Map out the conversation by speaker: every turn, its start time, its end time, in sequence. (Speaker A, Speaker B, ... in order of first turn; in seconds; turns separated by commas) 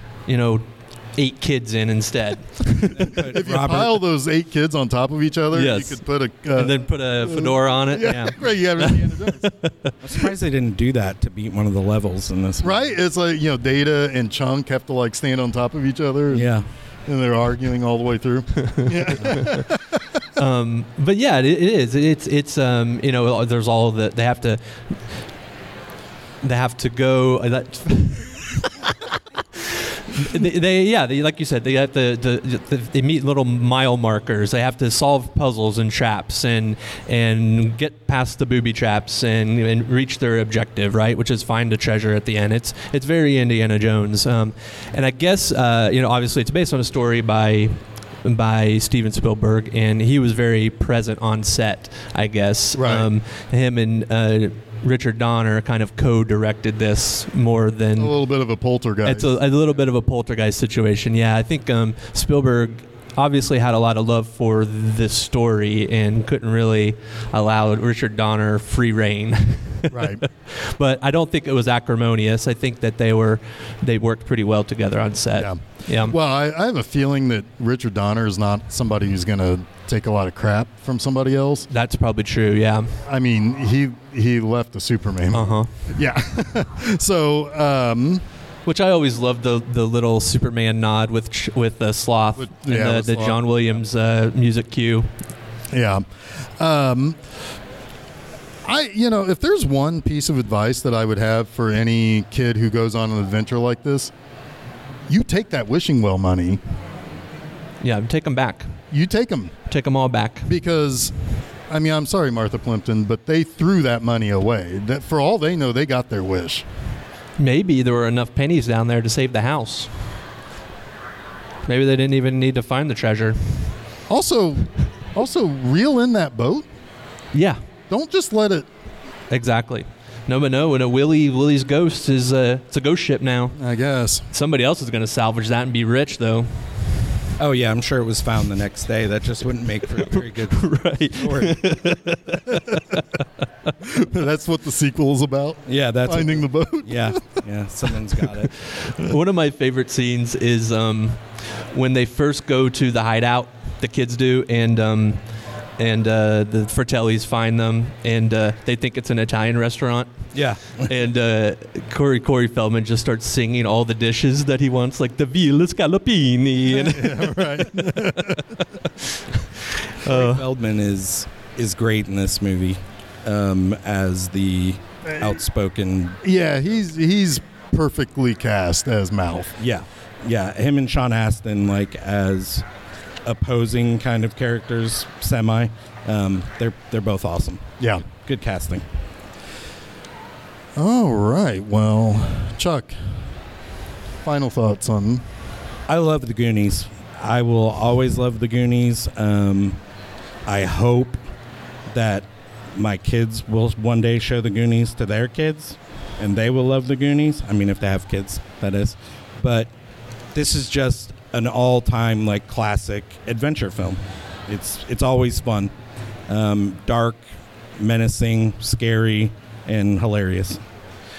Speaker A: 0.2-3.1, Speaker B: 2.9-4.0, Speaker C: 3.3-9.5, Speaker A: 5.5-10.0, Speaker B: 10.0-12.8, Speaker C: 12.6-16.6, Speaker B: 16.3-16.7, Speaker C: 17.1-19.8, Speaker A: 18.6-19.6, Speaker A: 20.4-25.3, Speaker A: 26.4-28.7, Speaker A: 29.6-58.1, Speaker C: 52.7-53.1, Speaker C: 58.0-59.3, Speaker A: 59.0-76.2, Speaker C: 69.9-70.2, Speaker C: 75.3-81.7, Speaker A: 81.7-83.0, Speaker C: 83.0-88.2, Speaker A: 85.3-85.7, Speaker A: 88.6-95.1, Speaker C: 92.4-93.4, Speaker C: 95.7-97.2, Speaker C: 98.6-104.1, Speaker C: 105.1-106.6, Speaker A: 107.8-108.8, Speaker C: 108.9-109.5, Speaker A: 109.7-110.5, Speaker C: 110.5-111.1, Speaker C: 111.7-116.7, Speaker A: 117.4-120.2, Speaker A: 121.7-123.8, Speaker C: 124.1-126.7, Speaker A: 127.3-127.6, Speaker C: 127.9-128.7, Speaker A: 129.3-133.6, Speaker C: 133.6-134.2, Speaker A: 134.3-137.0, Speaker B: 137.4-141.6, Speaker A: 140.0-143.2, Speaker C: 143.8-147.4, Speaker B: 145.7-148.6, Speaker A: 148.7-170.4, Speaker B: 160.3-160.9, Speaker C: 166.7-168.6, Speaker B: 170.1-176.2, Speaker C: 175.1-175.4, Speaker C: 176.2-179.6, Speaker B: 179.6-182.7, Speaker B: 183.2-188.8, Speaker C: 187.8-188.1, Speaker C: 190.8-193.2, Speaker C: 194.2-195.2, Speaker B: 195.9-199.8, Speaker B: 200.4-201.2, Speaker B: 201.9-209.7, Speaker B: 210.3-215.7, Speaker B: 216.3-217.2, Speaker B: 217.8-220.6